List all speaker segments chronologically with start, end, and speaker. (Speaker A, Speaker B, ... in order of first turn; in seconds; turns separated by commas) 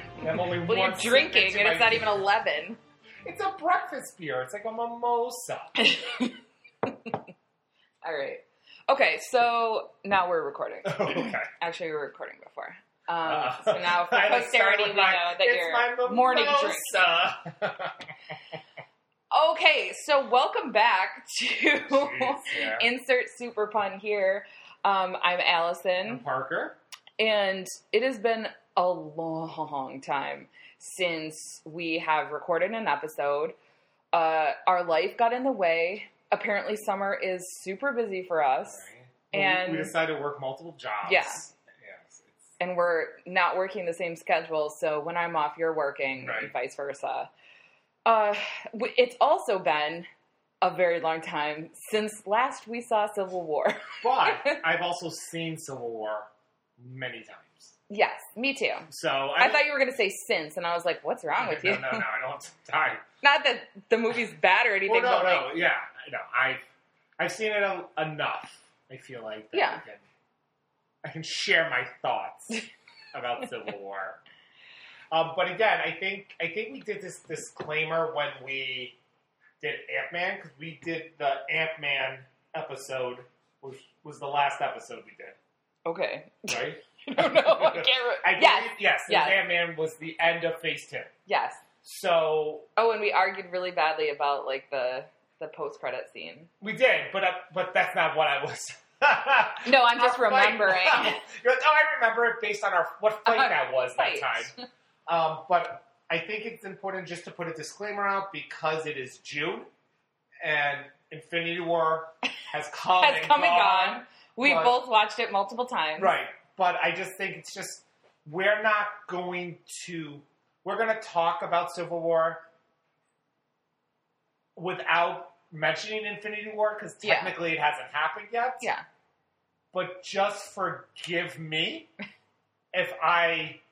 Speaker A: 0.2-2.2, Speaker B: 0.3-2.8, Speaker A: 3.2-5.8, Speaker B: 5.8-7.2, Speaker B: 8.0-17.1, Speaker A: 10.8-11.5, Speaker A: 13.2-18.6, Speaker B: 19.3-26.2, Speaker A: 21.9-22.9, Speaker A: 26.1-26.8, Speaker B: 27.2-33.6, Speaker B: 34.1-39.9, Speaker A: 38.6-42.5, Speaker B: 41.0-41.4, Speaker B: 42.6-47.3, Speaker A: 46.2-46.5, Speaker B: 48.0-50.1, Speaker B: 50.6-54.6, Speaker A: 54.0-56.3, Speaker A: 56.8-57.8, Speaker B: 57.9-62.0, Speaker A: 58.9-59.7, Speaker A: 61.4-63.0, Speaker B: 63.2-65.6, Speaker A: 64.9-66.7, Speaker A: 67.2-70.0, Speaker B: 69.5-69.8, Speaker A: 71.0-74.2, Speaker A: 75.1-79.0, Speaker A: 79.6-85.4, Speaker B: 85.9-89.4, Speaker A: 86.5-91.1, Speaker B: 91.3-91.6, Speaker A: 91.8-92.7, Speaker B: 92.8-96.5, Speaker A: 96.6-104.5, Speaker B: 99.6-101.2, Speaker B: 103.3-104.5, Speaker A: 105.1-109.7, Speaker A: 110.4-114.8, Speaker B: 113.0-116.1, Speaker A: 116.0-122.4, Speaker A: 124.6-128.7, Speaker B: 127.0-127.3, Speaker A: 129.7-131.9, Speaker A: 132.7-133.6